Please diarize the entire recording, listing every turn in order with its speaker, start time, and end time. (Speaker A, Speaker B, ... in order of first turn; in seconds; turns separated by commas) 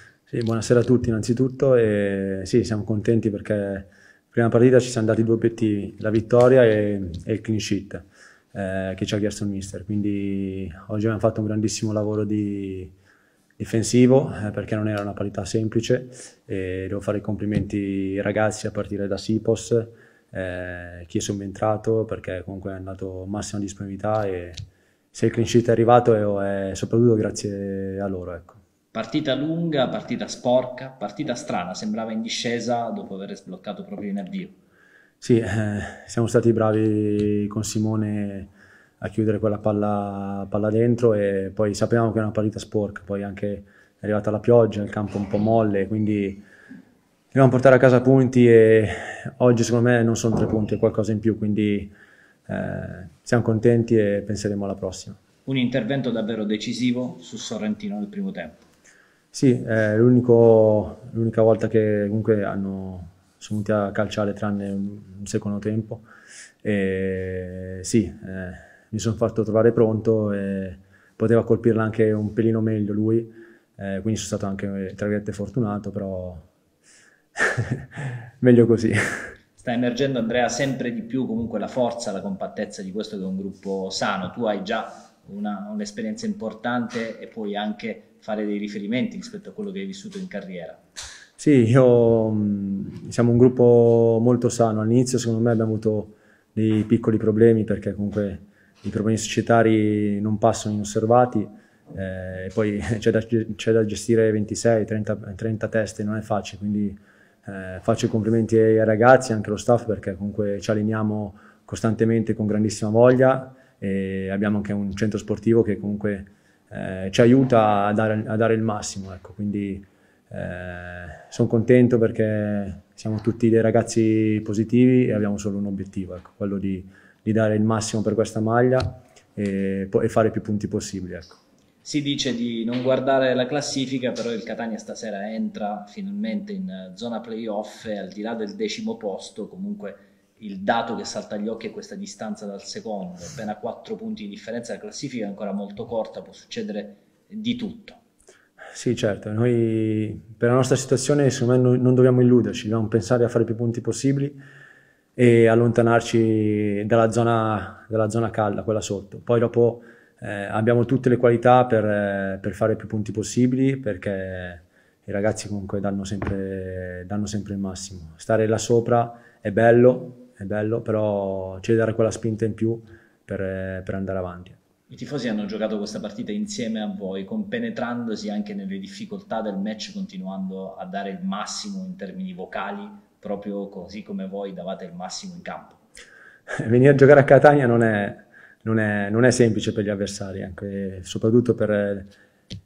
Speaker A: 0.3-12.9, Speaker A: 13.6-24.6, Speaker A: 25.1-28.6, Speaker B: 28.9-34.5, Speaker A: 35.2-46.4, Speaker A: 47.3-51.9, Speaker A: 52.5-55.2, Speaker B: 55.5-58.6, Speaker A: 59.3-66.0, Speaker A: 66.6-76.5, Speaker A: 77.4-79.3, Speaker B: 79.6-90.8, Speaker A: 91.4-131.4, Speaker B: 131.8-148.0, Speaker A: 148.8-154.4, Speaker A: 155.2-174.6, Speaker B: 174.9-185.8, Speaker A: 186.6-192.1